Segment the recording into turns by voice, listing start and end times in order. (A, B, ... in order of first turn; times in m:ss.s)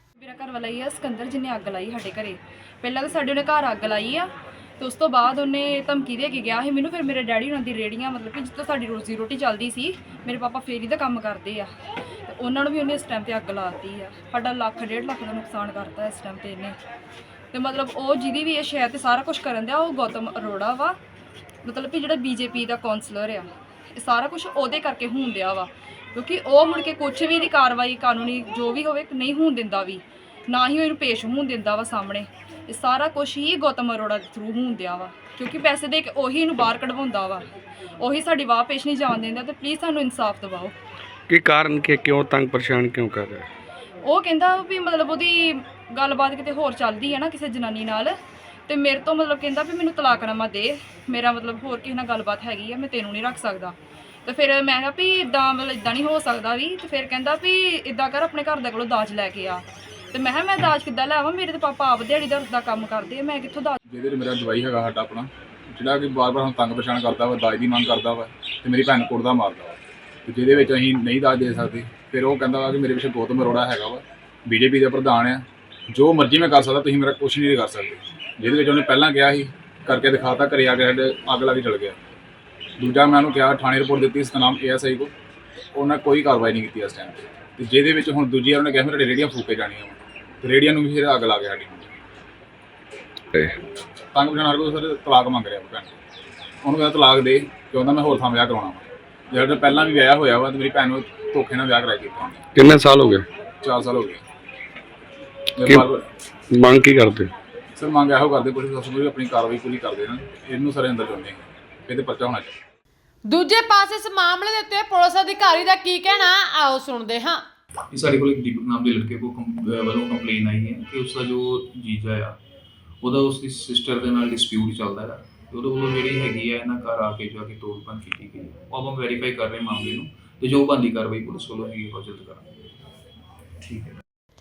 0:00.2-0:11.7 A
0:12.3-0:16.8 A
0:17.5-0:21.0 A
0:21.6-0:37.5 A
0:38.0-0:40.7 A
0:41.3-0:43.5 B
0:44.1-0:48.2 A
0:48.7-0:53.8 A
0:54.3-1:03.8 A
1:03.9-1:22.0 C
1:22.8-1:25.1 C
1:25.8-1:31.9 C
1:34.1-1:35.9 C
1:36.6-1:42.5 C
1:42.6-1:43.2 B
1:43.6-1:44.2 C
1:45.6-1:46.0 C
1:46.5-1:47.3 B
1:47.8-1:52.6 C
1:53.3-1:57.4 D
1:57.9-2:02.4 E
2:03.0-2:12.5 E
2:13.6-2:14.0 E